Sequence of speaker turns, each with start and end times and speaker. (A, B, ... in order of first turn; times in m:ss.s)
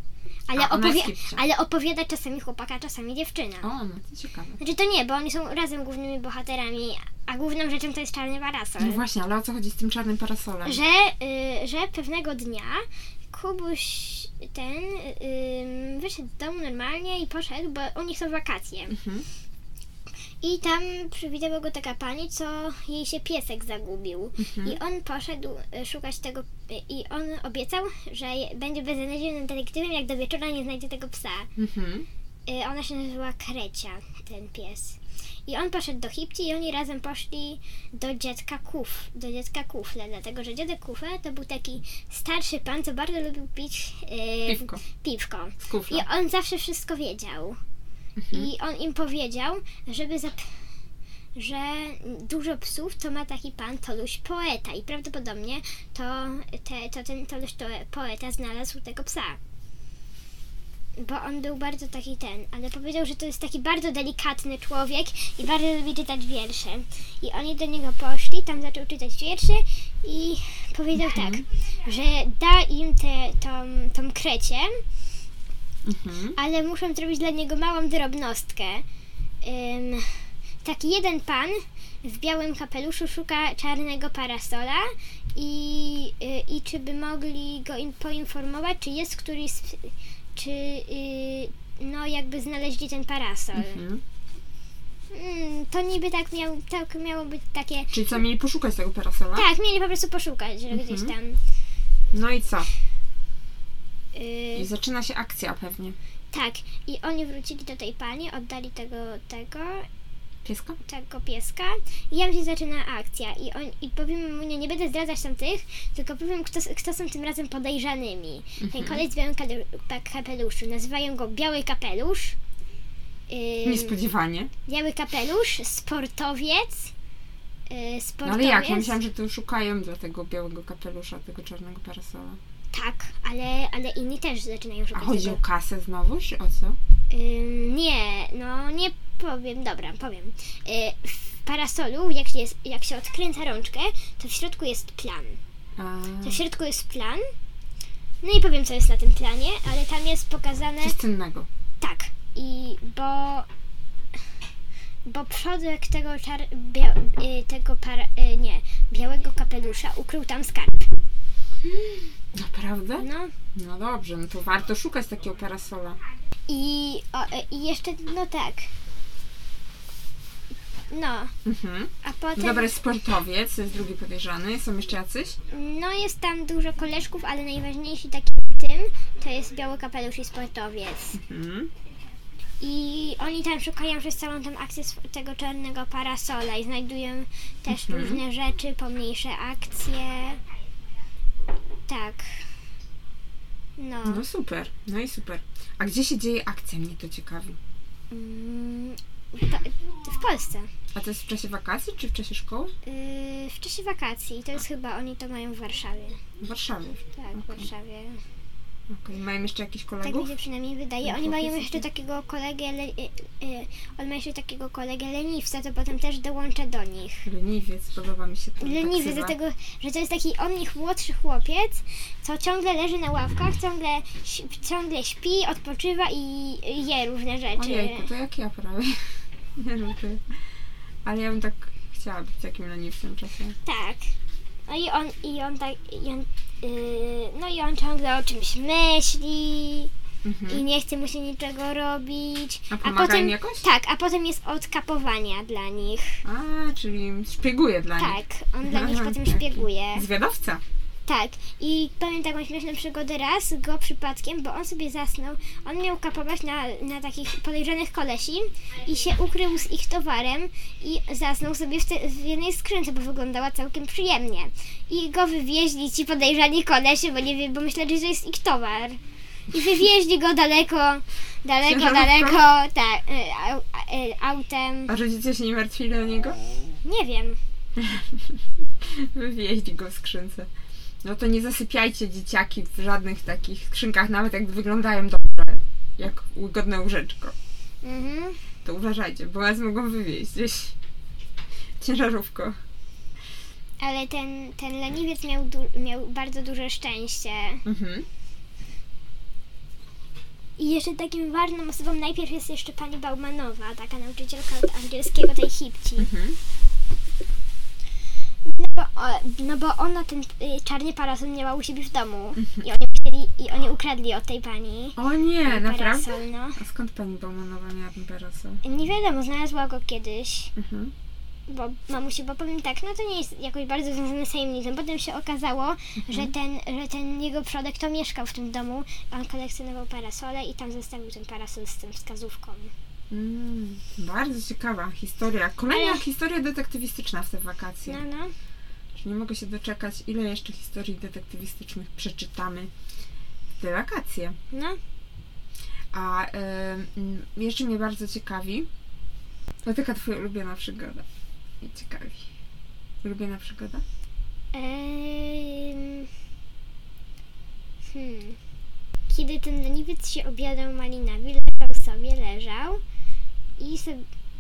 0:00.5-0:03.7 A
0:00.5-0:01.4 B
0:03.6-0:04.6 B
0:04.6-0:09.0 A
0:08.8-0:10.8 B
0:10.6-0:19.0 A
0:18.9-0:19.3 B
0:20.4-0:31.5 A
0:24.4-0:24.8 B
0:31.6-0:32.1 B
0:32.5-0:47.6 A
0:44.5-0:44.8 B
0:45.7-0:46.1 B
0:48.2-0:48.5 B
0:48.3-0:50.5 A
0:51.4-0:59.4 A
1:01.0-1:14.8 A
1:11.0-1:11.4 B
1:15.8-1:16.4 B
1:16.4-1:18.8 A
1:19.4-1:33.8 A
1:33.6-1:34.0 B
1:35.1-1:38.0 A
1:37.9-1:39.5 B
1:39.4-1:41.4 A
1:40.7-1:41.1 B
1:42.1-1:42.7 B
1:44.1-1:44.7 A
1:44.6-1:46.0 B
1:46.3-1:49.9 A
1:50.4-1:50.8 B
1:50.8-2:02.4 A
1:58.6-1:59.1 B
2:03.3-2:04.0 A
2:03.6-2:04.5 B
2:04.7-2:06.9 A
2:07.7-2:09.0 A
2:08.2-2:12.4 B
2:12.7-2:15.4 A
2:14.9-2:16.8 B
2:17.1-2:25.4 A
2:25.8-2:26.4 B
2:26.2-2:27.2 A
2:28.2-2:31.0 A
2:30.8-2:31.5 B
2:31.8-2:33.5 A
2:35.1-2:40.9 A
2:41.6-2:46.0 B
2:43.0-2:43.3 A
2:46.5-2:48.7 A
2:50.9-2:51.3 A
2:51.4-2:55.4 B
2:52.0-2:52.7 A
2:55.5-3:01.2 A
3:01.2-3:01.7 B
3:02.6-3:10.4 A
3:07.7-3:08.2 B
3:11.9-3:12.2 A
3:13.8-3:14.2 A
3:14.0-3:17.6 B
3:18.1-3:20.7 A
3:20.9-3:22.7 B
3:22.8-3:26.2 A
3:26.4-3:27.7 B
3:27.2-3:28.2 A
3:28.9-3:30.3 B
3:30.0-3:37.3 A
3:31.0-3:31.9 B
3:37.2-3:39.4 B
3:38.6-3:48.1 A
3:47.6-3:50.4 B
3:51.0-3:53.6 B
3:53.6-3:54.1 A
3:54.7-3:59.9 A
4:00.2-4:00.6 B
4:00.5-4:06.2 A
4:02.7-4:03.7 B
4:06.2-4:10.6 B
4:08.0-4:10.0 A
4:11.1-4:29.0 A
4:29.5-4:34.9 A
4:31.6-4:32.4 B
4:34.9-4:36.4 B
4:36.8-4:37.4 A
4:37.8-4:40.5 B
4:41.0-4:47.3 B
4:47.8-4:48.4 A
4:48.6-4:50.8 B
4:51.8-4:52.6 B
4:53.8-4:57.6 A
4:57.6-4:58.1 B
5:00.6-5:06.1 A
5:06.0-5:06.4 B
5:08.5-5:16.6 A
5:15.0-5:18.6 B
5:18.6-5:20.5 A
5:20.6-5:20.9 B
5:21.5-5:32.7 A
5:26.1-5:26.3 B
5:33.1-5:38.0 B
5:35.7-5:36.0 A
5:37.9-5:38.3 A
5:39.0-5:42.7 B
5:43.6-5:44.4 B
5:44.5-5:44.8 A
5:45.9-5:48.7 B
5:49.6-5:51.0 B
5:51.6-5:52.3 B
5:53.0-5:53.8 B
5:54.5-5:56.1 A
5:57.9-5:58.4 A
5:59.1-6:02.8 A
6:03.6-6:04.0 A